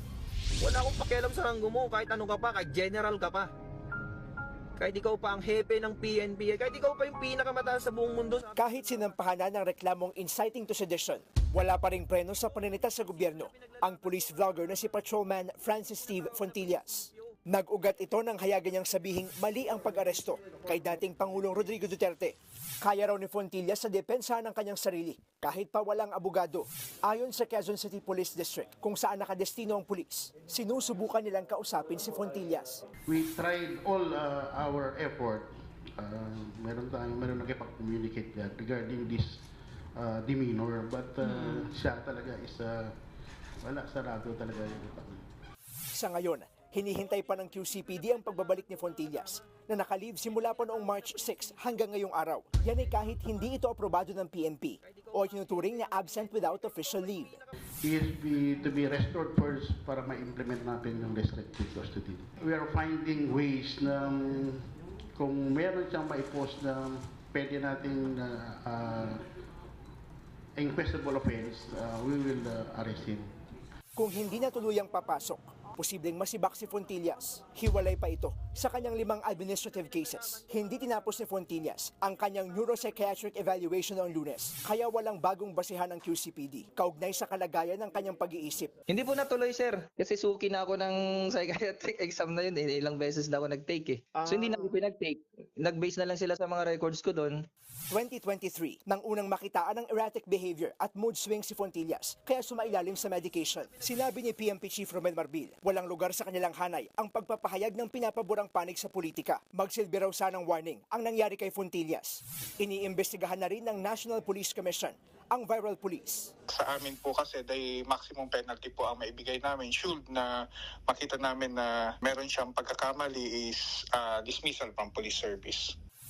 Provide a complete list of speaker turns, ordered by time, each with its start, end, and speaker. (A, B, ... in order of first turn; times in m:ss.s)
0:00.6-0:03.5 A
0:04.8-0:08.5 A
0:08.6-0:32.8 B
0:33.1-0:39.4 C
0:40.0-0:42.9 C
0:43.6-0:45.2 C
0:45.9-0:57.4 B
0:57.8-1:09.2 C
1:10.6-1:13.3 C
1:14.0-1:28.7 B
1:28.9-1:37.4 D
1:34.2-1:34.7 A
1:37.9-1:56.3 B
1:56.5-2:00.3 E
2:00.9-2:05.7 E